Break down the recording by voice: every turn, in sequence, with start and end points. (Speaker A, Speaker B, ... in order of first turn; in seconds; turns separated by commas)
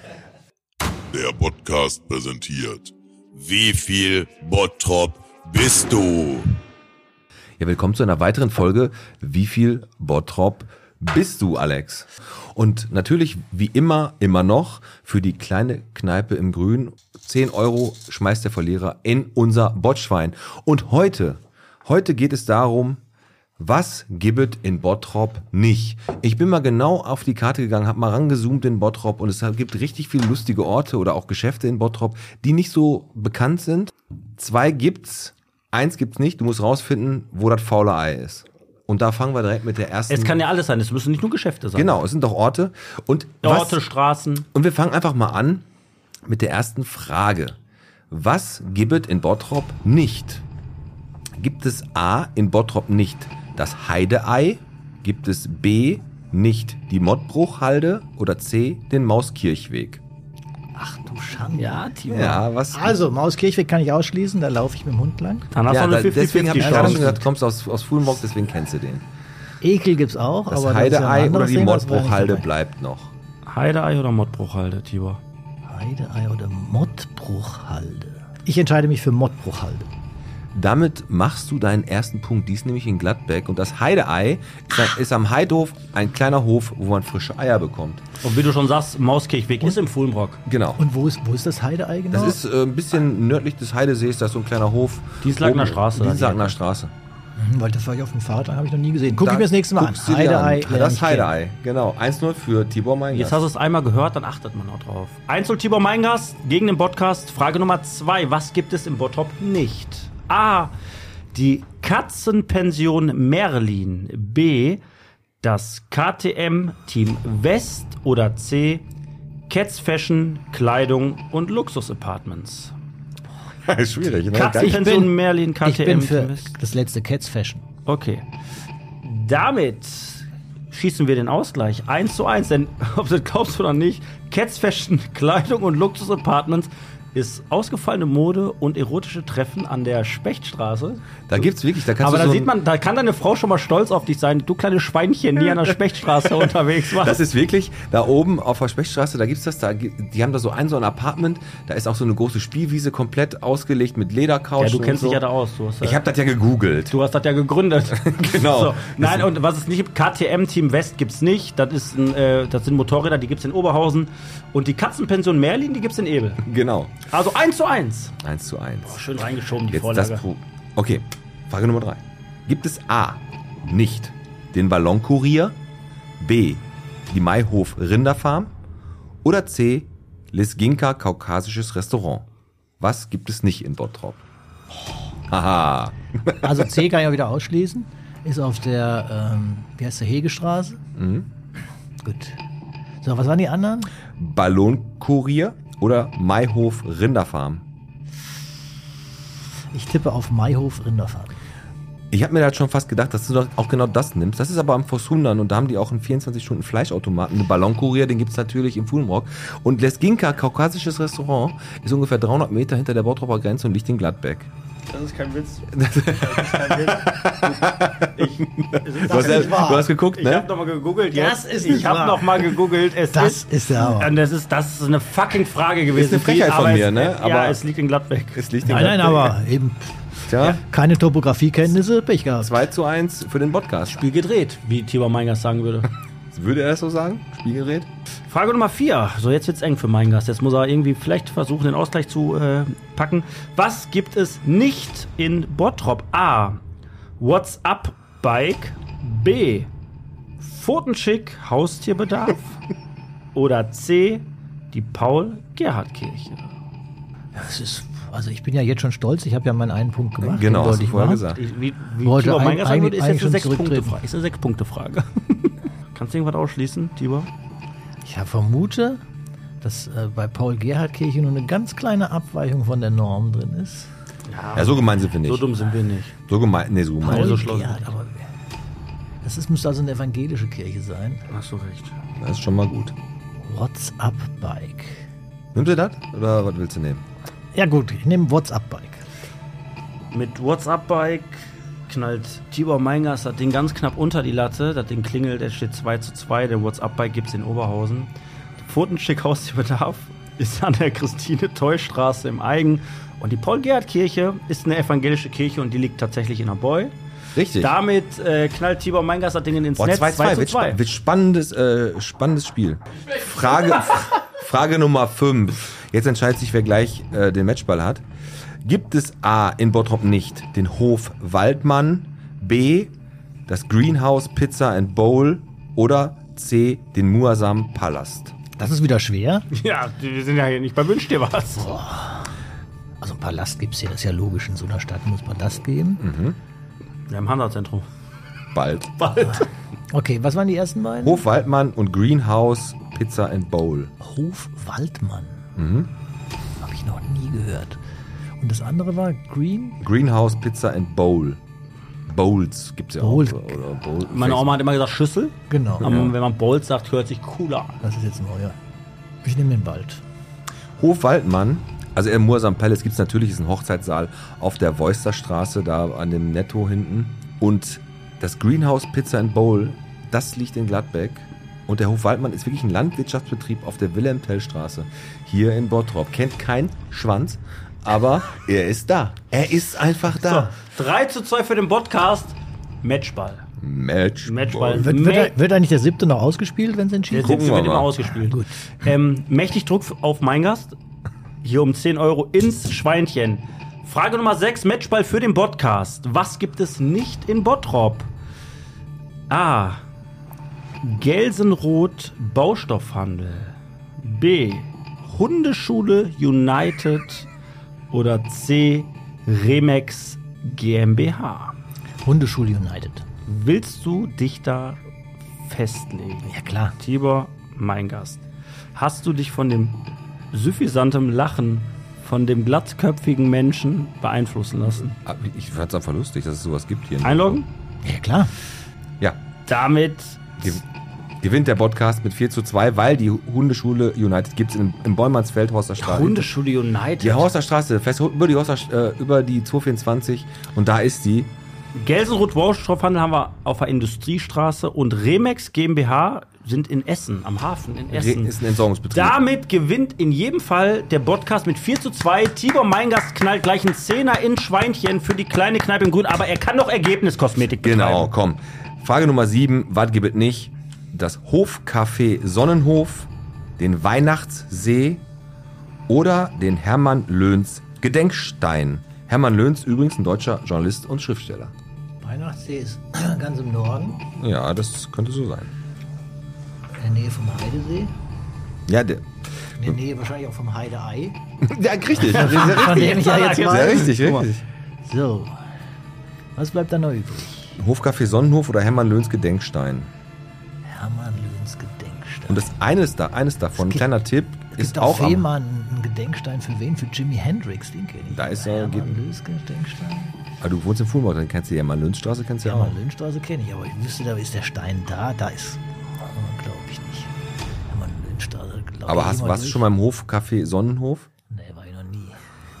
Speaker A: 1.1-6.6, Speaker B: 7.6-23.0, Speaker B: 23.6-40.4, Speaker C: 40.1-42.0, Speaker B: 41.7-43.8, Speaker C: 43.4-44.5, Speaker B: 44.5-45.6, Speaker B: 46.2-47.6, Speaker B: 48.1-50.4, Speaker B: 51.4-60.0, Speaker D: 60.7-61.9, Speaker C: 61.5-62.5, Speaker B: 62.1-63.0, Speaker D: 62.7-65.5, Speaker C: 65.5-67.2, Speaker B: 65.7-69.0, Speaker D: 66.6-67.1, Speaker D: 69.6-72.5, Speaker B: 70.5-73.1, Speaker C: 73.5-75.2, Speaker D: 75.7-79.9, Speaker B: 80.5-88.0, Speaker C: 88.2-90.4, Speaker B: 90.5-90.8, Speaker D: 90.8-92.4, Speaker B: 92.1-96.9, Speaker C: 95.2-96.5, Speaker D: 97.3-101.3, Speaker B: 99.1-103.5, Speaker C: 103.1-110.7, Speaker C: 111.3-114.8, Speaker C: 115.4-118.8, Speaker C: 119.5-122.7, Speaker B: 123.7-124.9, Speaker C: 124.3-126.5, Speaker D: 124.5-127.6, Speaker C: 127.8-128.2, Speaker C: 129.0-141.4, Speaker B: 141.3-142.5, Speaker C: 142.0-147.2, Speaker B: 146.9-155.2, Speaker C: 154.6-156.0, Speaker B: 155.8-157.0, Speaker C: 156.9-166.4, Speaker B: 157.9-159.3, Speaker B: 166.4-166.9, Speaker C: 167.1-168.1, Speaker B: 168.2-169.0, Speaker C: 168.8-170.2, Speaker B: 169.7-175.6, Speaker B: 176.2-178.5, Speaker B: 179.2-182.3, Speaker B: 182.8-184.2, Speaker B: 185.3-186.7, Speaker D: 186.4-190.8, Speaker B: 190.9-191.3, Speaker D: 192.0-192.4, Speaker D: 193.0-193.9, Speaker B: 194.1-197.6, Speaker D: 199.7-201.3, Speaker B: 202.1-214.5, Speaker C: 214.9-228.5, Speaker B: 215.7-220.5, Speaker D: 219.0-219.9, Speaker D: 221.1-222.5, Speaker D: 223.1-224.2, Speaker B: 225.9-227.6, Speaker B: 228.3-229.4, Speaker D: 228.6-229.9, Speaker B: 230.2-230.6, Speaker D: 230.5-232.6, Speaker B: 232.4-234.0, Speaker C: 233.9-235.9, Speaker B: 236.3-237.9, Speaker C: 238.3-246.6, Speaker C: 247.2-249.7, Speaker C: 250.4-252.6, Speaker C: 253.3-256.5, Speaker D: 257.3-261.3, Speaker B: 260.2-261.4, Speaker C: 261.3-267.3, Speaker D: 262.0-264.0, Speaker D: 268.0-269.0, Speaker D: 269.6-273.9, Speaker C: 274.3-276.1, Speaker B: 274.6-275.5, Speaker B: 276.3-277.4, Speaker C: 277.0-277.9, Speaker D: 277.0-278.2, Speaker D: 279.2-281.2, Speaker C: 281.3-282.0, Speaker B: 282.1-282.9, Speaker D: 283.4-285.0, Speaker B: 285.5-287.0, Speaker D: 287.5-289.0, Speaker C: 290.1-306.9, Speaker B: 307.3-307.7, Speaker C: 307.6-310.8, Speaker B: 309.8-318.0, Speaker B: 318.6-322.9, Speaker B: 323.5-328.3, Speaker D: 328.6-329.5, Speaker C: 329.5-331.7, Speaker D: 331.6-332.3, Speaker D: 333.0-336.0, Speaker B: 336.0-336.4, Speaker C: 337.1-337.9, Speaker B: 338.5-339.2, Speaker C: 339.0-339.5, Speaker D: 339.9-341.2, Speaker B: 341.0-343.9, Speaker D: 344.0-345.5, Speaker B: 345.6-345.9, Speaker D: 346.6-347.8, Speaker D: 348.4-349.8, Speaker B: 349.8-351.4, Speaker B: 352.1-354.5, Speaker D: 353.0-353.6, Speaker C: 354.1-357.8, Speaker D: 355.5-356.0, Speaker B: 355.8-356.1, Speaker D: 357.8-358.6, Speaker D: 359.2-360.0, Speaker B: 360.8-380.5, Speaker C: 380.1-383.4, Speaker B: 383.6-384.9, Speaker C: 384.2-385.3, Speaker D: 384.8-387.6, Speaker C: 387.1-390.8, Speaker B: 387.2-387.9, Speaker D: 388.2-388.5, Speaker C: 391.4-398.1, Speaker C: 399.3-399.8, Speaker C: 400.8-407.3, Speaker C: 407.9-411.6, Speaker D: 412.0-413.0, Speaker C: 413.3-414.8, Speaker C: 415.4-418.2, Speaker D: 416.3-416.7, Speaker C: 418.7-424.9, Speaker B: 424.9-427.4, Speaker C: 427.0-427.5, Speaker D: 427.8-428.3, Speaker C: 429.5-430.5, Speaker B: 431.2-436.3, Speaker C: 435.8-437.3, Speaker B: 437.0-441.3, Speaker C: 441.7-448.3, Speaker B: 447.9-449.2, Speaker C: 448.9-458.1, Speaker B: 457.6-465.0, Speaker B: 465.9-471.5, Speaker D: 472.0-474.1, Speaker B: 474.1-475.5, Speaker D: 476.8-477.9, Speaker B: 478.7-479.8, Speaker D: 479.6-481.2, Speaker B: 481.4-484.4, Speaker D: 481.9-484.1, Speaker C: 482.3-484.3, Speaker D: 484.8-485.4, Speaker D: 486.3-487.6, Speaker B: 487.6-489.9, Speaker D: 490.6-492.5, Speaker B: 492.3-495.3, Speaker D: 493.6-493.8, Speaker D: 494.5-500.1, Speaker B: 498.1-499.0, Speaker B: 500.4-502.8, Speaker D: 502.4-507.1, Speaker D: 507.7-509.6, Speaker B: 508.9-511.1, Speaker D: 511.3-512.2